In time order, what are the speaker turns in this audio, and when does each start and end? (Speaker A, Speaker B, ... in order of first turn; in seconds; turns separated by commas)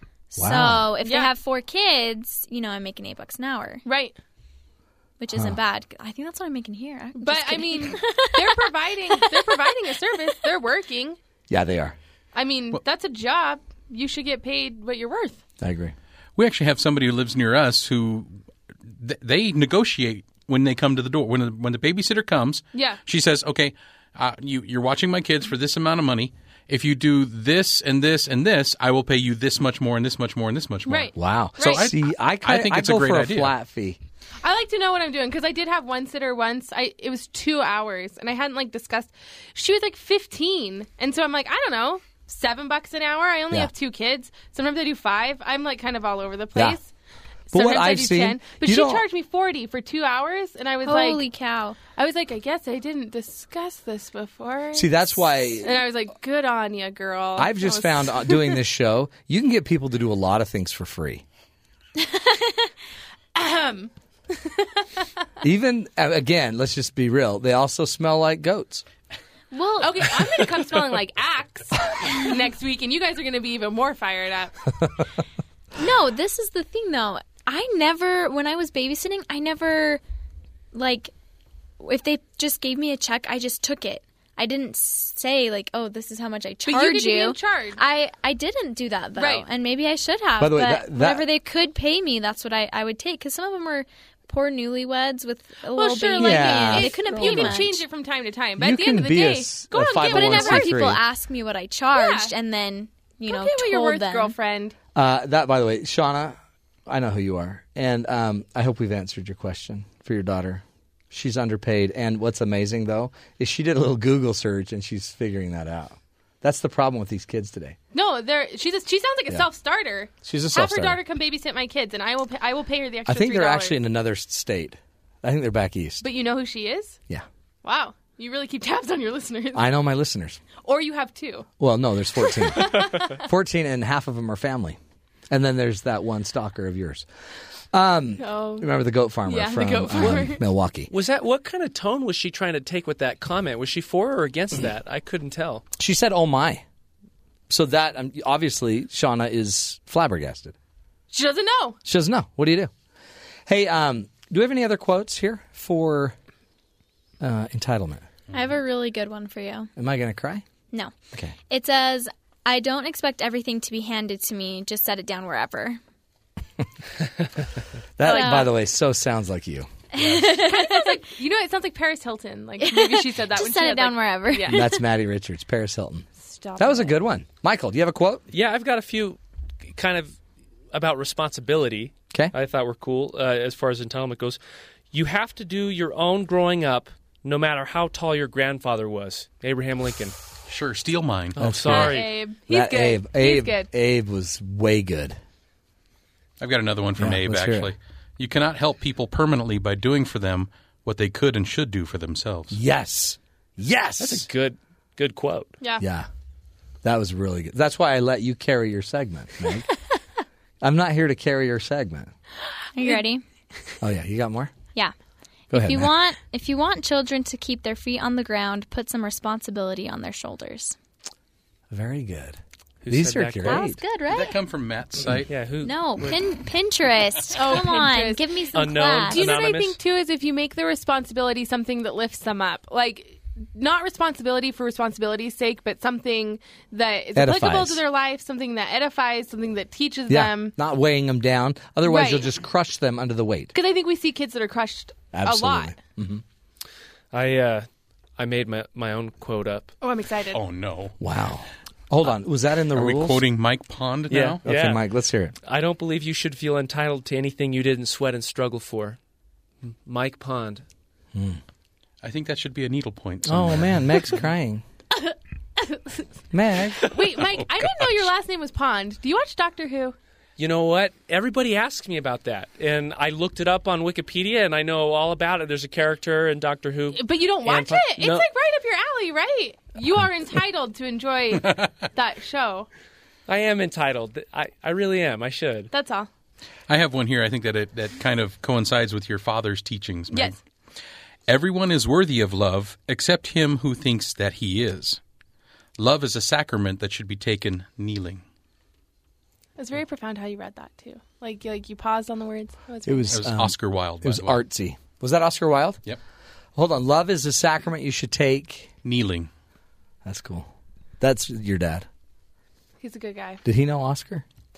Speaker A: 0.3-3.8, Speaker B: 0.3-0.9, Speaker C: 1.0-1.3, Speaker C: 3.8-4.2, Speaker A: 5.2-9.6, Speaker C: 7.2-11.2, Speaker B: 11.5-11.9, Speaker C: 12.3-15.4, Speaker B: 15.6-15.9, Speaker D: 16.4-18.4, Speaker D: 19.0-33.5, Speaker C: 22.7-23.0, Speaker C: 30.9-31.9, Speaker B: 31.1-34.0, Speaker C: 34.4-46.9, Speaker B: 47.5-49.0, Speaker C: 47.5-51.2, Speaker A: 50.8-51.8, Speaker C: 51.9-58.6, Speaker B: 54.7-55.8, Speaker B: 57.4-61.2, Speaker C: 63.3-64.8, Speaker B: 65.4-68.8, Speaker A: 69.5-69.9, Speaker C: 69.8-74.5, Speaker A: 75.8-80.0, Speaker A: 80.7-81.1, Speaker A: 81.8-97.8, Speaker C: 86.7-87.8, Speaker C: 89.2-89.5, Speaker B: 90.4-91.2, Speaker C: 95.7-100.9, Speaker B: 96.2-97.7, Speaker B: 98.6-101.0, Speaker A: 100.0-104.3, Speaker C: 101.9-102.3, Speaker C: 103.2-104.8, Speaker B: 104.9-117.8, Speaker C: 117.9-123.8, Speaker B: 120.2-121.0, Speaker B: 123.0-126.1, Speaker C: 126.0-127.0, Speaker C: 127.6-129.7, Speaker B: 129.5-130.4, Speaker C: 130.6-131.5, Speaker B: 131.6-134.8, Speaker C: 132.2-133.1, Speaker B: 135.3-137.1, Speaker B: 137.7-140.9, Speaker C: 138.2-138.7, Speaker C: 139.2-140.4, Speaker E: 140.9-145.6, Speaker B: 145.8-146.6, Speaker B: 147.5-150.5, Speaker C: 151.1-151.8, Speaker B: 151.8-152.7, Speaker B: 153.4-156.2, Speaker B: 157.2-158.1, Speaker A: 158.3-159.7, Speaker B: 159.8-160.4, Speaker A: 161.5-165.8, Speaker B: 168.0-169.7, Speaker A: 168.0-168.5, Speaker A: 169.9-171.0, Speaker C: 170.2-174.7, Speaker A: 172.6-174.8, Speaker B: 174.5-178.2, Speaker C: 176.1-177.0, Speaker E: 178.3-180.2, Speaker E: 180.7-184.4, Speaker E: 184.9-190.2, Speaker D: 190.5-191.4, Speaker E: 191.3-192.2, Speaker B: 191.4-195.2, Speaker C: 191.6-193.7, Speaker D: 196.4-202.6, Speaker B: 197.0-197.7, Speaker B: 202.5-204.3, Speaker E: 204.0-205.5, Speaker B: 205.8-206.1, Speaker B: 206.8-209.7, Speaker B: 210.6-212.1, Speaker A: 212.7-213.2, Speaker B: 213.8-214.5, Speaker B: 215.5-215.9, Speaker A: 215.5-220.8, Speaker B: 221.7-223.8, Speaker E: 222.8-223.7, Speaker A: 223.4-224.4, Speaker D: 224.1-225.4, Speaker E: 225.3-226.2, Speaker A: 225.6-229.3, Speaker C: 227.3-228.2, Speaker E: 228.5-229.8, Speaker C: 229.1-240.5, Speaker B: 237.2-237.8, Speaker B: 240.1-243.5, Speaker C: 241.8-242.3, Speaker C: 243.5-245.8, Speaker B: 245.1-246.2, Speaker E: 247.1-249.7, Speaker C: 249.8-250.4, Speaker D: 250.3-250.9, Speaker B: 251.0-253.2, Speaker D: 252.7-254.4, Speaker E: 254.1-254.8, Speaker B: 254.4-255.3, Speaker E: 255.4-259.0, Speaker E: 259.8-260.6, Speaker B: 261.1-261.4, Speaker D: 262.0-263.9, Speaker B: 263.2-264.6, Speaker C: 264.9-266.1, Speaker B: 266.3-266.9, Speaker C: 266.9-269.9, Speaker E: 270.4-278.3, Speaker C: 276.9-282.7, Speaker D: 281.4-281.8, Speaker E: 283.3-285.7, Speaker C: 285.7-286.1, Speaker D: 286.7-290.4, Speaker C: 290.1-290.4, Speaker D: 291.3-295.0, Speaker D: 295.8-298.2, Speaker C: 299.6-303.3, Speaker B: 302.9-305.8, Speaker D: 303.1-304.4, Speaker B: 306.6-308.7, Speaker D: 308.8-309.3, Speaker B: 310.0-310.5, Speaker B: 311.0-311.9, Speaker C: 312.8-313.4, Speaker B: 313.4-314.2